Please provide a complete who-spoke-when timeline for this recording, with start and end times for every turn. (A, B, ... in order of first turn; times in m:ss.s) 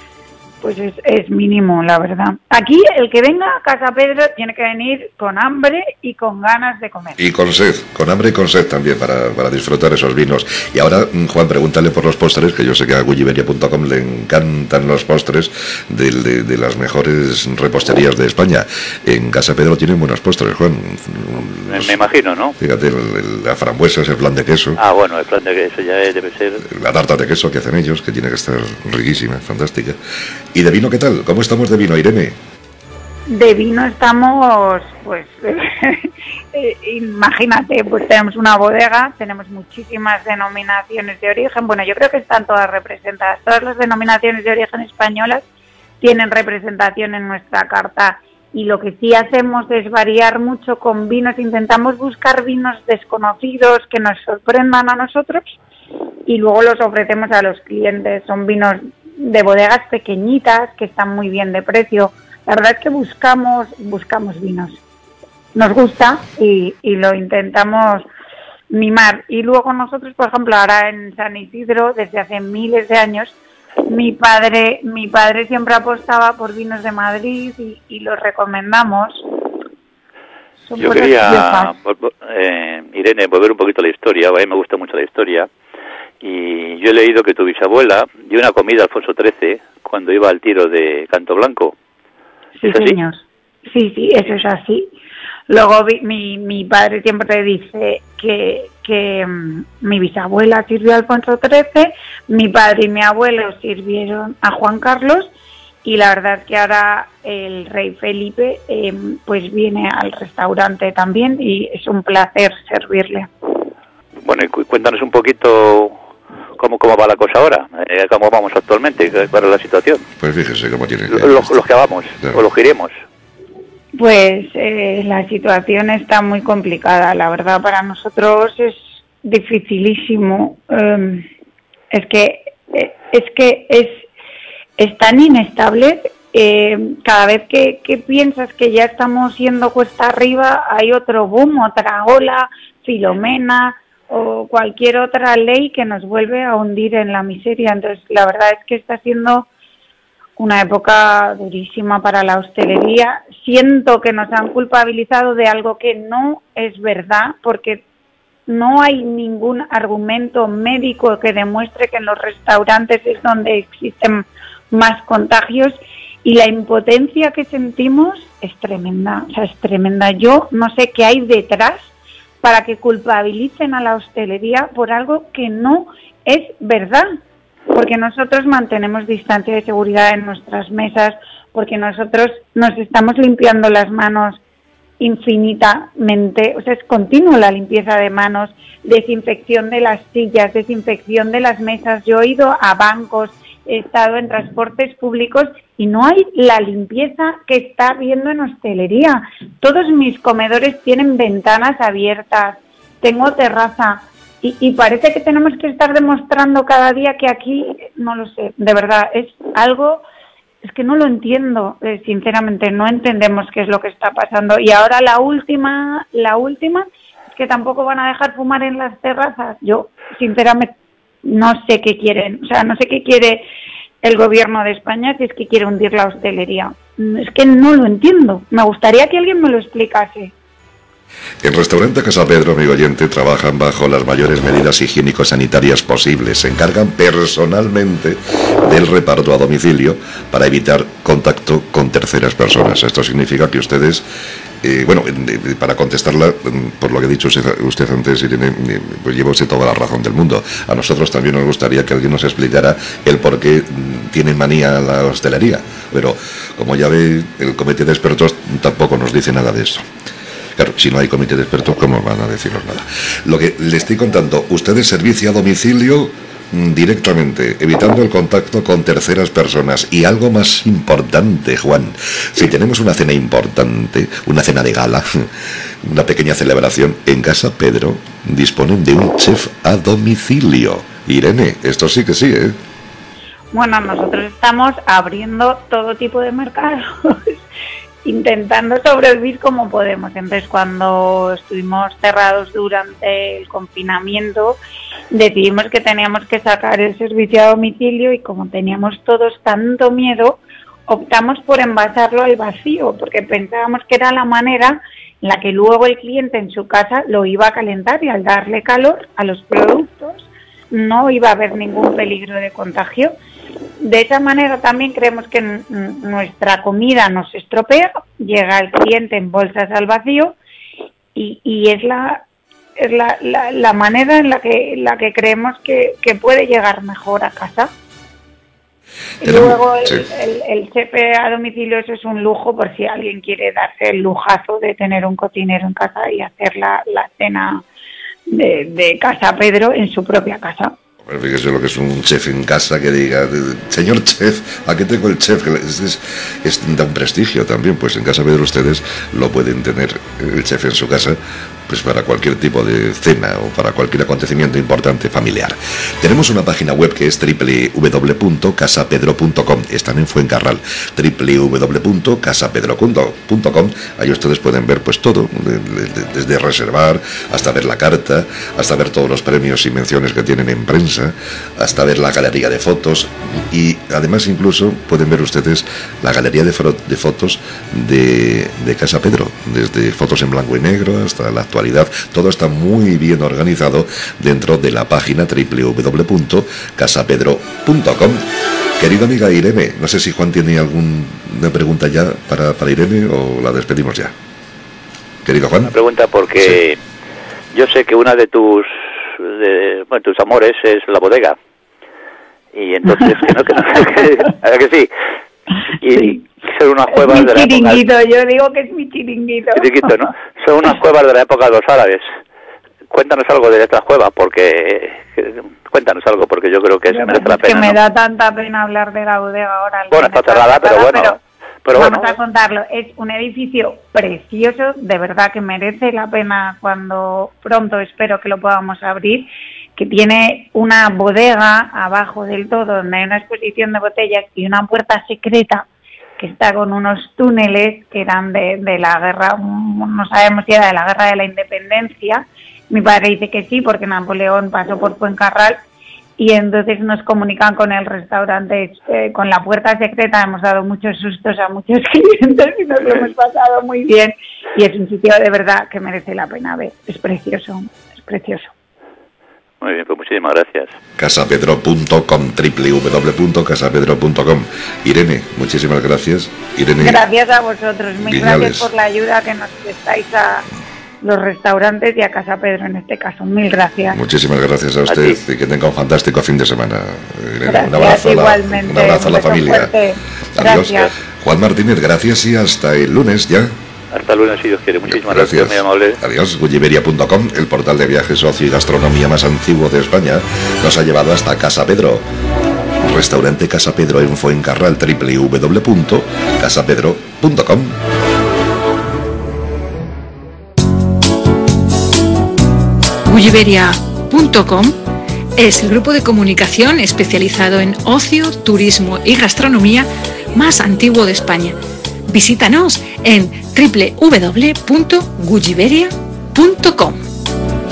0:00.6-0:07.2 A
0:07.2-0:21.9 B
0:21.6-0:22.5 C
0:22.6-0:24.8 B
0:24.8-0:26.6 C
0:26.6-0:30.0 B
0:30.5-0:32.4 B
0:33.3-0:45.4 A
0:46.0-0:55.6 A
0:56.2-1:04.8 A
1:05.5-1:08.1 A
1:08.7-1:13.4 A
1:13.9-1:19.2 A
1:20.6-1:21.7 A
1:20.8-1:25.5 C
1:26.2-1:31.7 C
1:32.6-1:34.9 A
1:32.7-1:32.9 C
1:35.5-1:45.3 A
1:45.8-1:53.3 A
1:54.2-1:56.0 C
1:56.6-2:00.0 C
2:00.2-2:01.5 B
2:01.1-2:02.9 C
2:04.0-2:11.3 A
2:11.9-2:14.0 A
2:14.8-2:29.5 A
2:30.4-2:37.8 A
2:38.5-2:51.9 A
2:52.4-2:57.0 A
2:57.7-3:04.4 A
3:05.0-3:30.0 A
3:30.6-3:40.7 A
3:41.2-3:43.4 A
3:44.0-3:50.3 A
3:51.4-4:04.0 B
4:04.6-4:19.8 B
4:20.6-4:35.2 B
4:35.8-4:42.6 B
4:43.5-4:47.4 A
4:48.0-5:13.1 A
5:13.8-5:20.4 A
5:21.1-5:22.2 A
5:22.8-5:27.7 A
5:29.2-5:37.6 A
5:29.2-5:30.0 B
5:38.3-5:40.7 A
5:41.0-6:28.2 B
6:28.8-6:34.1 B
6:35.2-6:35.7 B
6:35.7-6:36.8 C
6:37.5-6:41.4 C
6:42.5-6:44.9 C
6:45.7-6:47.8 C
6:46.9-6:49.9 A
6:49.6-6:52.0 C
6:52.9-6:57.8 C
6:56.9-7:01.2 A
6:59.9-7:02.2 C
7:01.7-7:25.6 A
7:26.2-7:38.5 A
7:39.6-7:40.7 C
7:41.0-7:47.0 B
7:46.8-7:50.4 A
7:48.0-7:48.7 B
7:51.0-7:54.0 A
7:53.9-7:59.7 B
7:54.9-7:55.2 C
7:57.4-8:00.9 A
8:00.3-8:03.5 B
8:03.9-8:06.0 C
8:04.8-8:12.0 B
8:12.8-8:17.8 B
8:23.0-8:24.8 D
8:25.4-8:37.0 D